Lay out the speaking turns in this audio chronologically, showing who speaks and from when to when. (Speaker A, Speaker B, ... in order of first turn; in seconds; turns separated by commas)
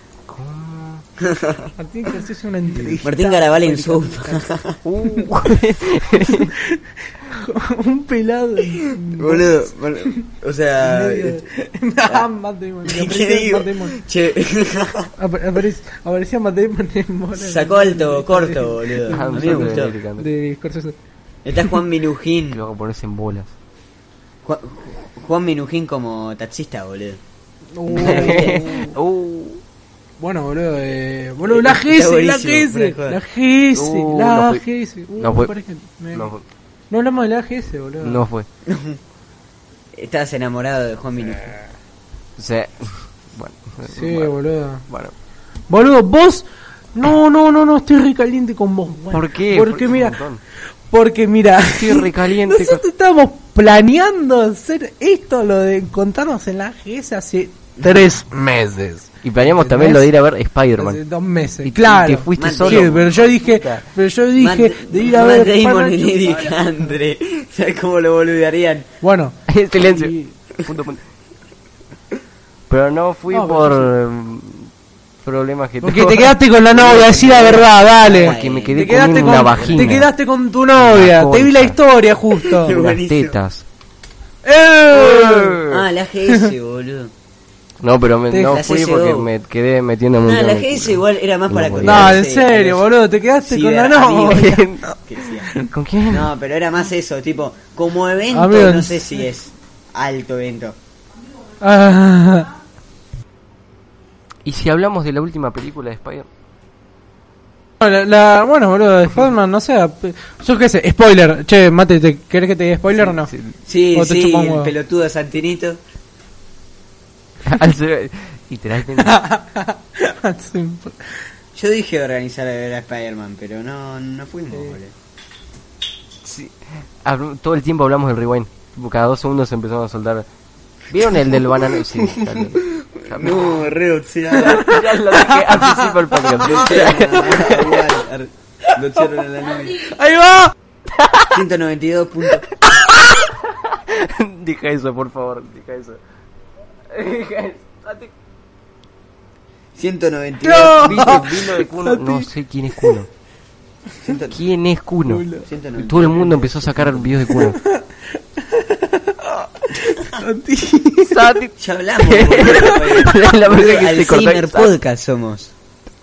Speaker A: 0.3-1.0, Speaker B: 1.2-1.7, Speaker C: 1.8-4.5, Speaker B: 3.0-4.8, Speaker A: 4.8-6.5, Speaker C: 5.0-5.4, Speaker C: 6.1-10.2, Speaker B: 8.8-11.4, Speaker C: 10.8-14.0, Speaker B: 12.8-15.1, Speaker C: 15.2-20.9, Speaker B: 17.3-19.9, Speaker A: 19.1-20.3, Speaker B: 21.4-22.6, Speaker A: 22.5-23.5, Speaker B: 24.4-27.2, Speaker C: 27.8-28.9, Speaker B: 27.9-28.8, Speaker A: 27.9-29.6, Speaker C: 30.2-36.3, Speaker B: 31.4-33.2, Speaker A: 33.7-34.6, Speaker A: 35.2-35.5, Speaker A: 36.1-36.4, Speaker C: 36.9-38.2, Speaker A: 38.0-38.5, Speaker B: 38.6-39.0, Speaker B: 39.9-41.5, Speaker A: 42.4-44.3, Speaker C: 43.9-44.8, Speaker A: 44.9-45.1, Speaker C: 45.7-50.2, Speaker A: 49.1-50.4, Speaker C: 50.9-60.1, Speaker A: 51.7-52.8, Speaker A: 59.2-61.0, Speaker C: 60.8-66.6, Speaker A: 61.6-63.8, Speaker B: 62.3-63.0, Speaker B: 64.3-68.9, Speaker C: 69.0-70.3, Speaker A: 69.5-71.0, Speaker A: 72.7-74.7, Speaker C: 73.3-73.9, Speaker A: 75.2-77.6, Speaker C: 75.8-82.8, Speaker B: 76.7-80.0, Speaker A: 78.1-80.1, Speaker A: 80.8-81.8, Speaker B: 82.4-83.4, Speaker A: 82.7-83.6, Speaker C: 84.4-85.6, Speaker A: 84.9-85.8, Speaker B: 85.7-87.1, Speaker A: 87.8-92.2, Speaker C: 88.3-88.6, Speaker B: 88.5-89.3, Speaker B: 90.2-92.8, Speaker C: 91.8-95.7, Speaker B: 93.4-94.5, Speaker A: 94.3-94.8, Speaker B: 95.0-95.5, Speaker A: 95.6-96.3, Speaker B: 96.1-100.8, Speaker C: 98.3-99.0, Speaker C: 101.6-102.5, Speaker A: 104.4-106.3, Speaker C: 107.8-113.3, Speaker A: 112.9-113.5, Speaker B: 113.7-115.8, Speaker C: 113.9-114.7, Speaker A: 117.4-119.2, Speaker C: 119.0-121.1, Speaker B: 121.5-124.9, Speaker C: 124.5-124.8, Speaker A: 126.2-130.2, Speaker A: 130.9-133.7, Speaker B: 132.0-134.8, Speaker A: 134.3-137.9, Speaker C: 134.3-137.0, Speaker B: 136.4-139.9, Speaker C: 139.8-140.5, Speaker A: 141.0-141.3, Speaker B: 141.3-142.4, Speaker A: 142.7-146.0, Speaker A: 146.9-148.1, Speaker B: 149.7-151.3, Speaker C: 150.4-152.9, Speaker A: 150.8-153.1, Speaker B: 154.0-154.4, Speaker A: 154.3-155.2, Speaker C: 155.1-155.5, Speaker B: 155.4-157.3, Speaker A: 155.8-157.6, Speaker C: 157.3-161.3, Speaker A: 161.0-164.7, Speaker B: 161.6-165.5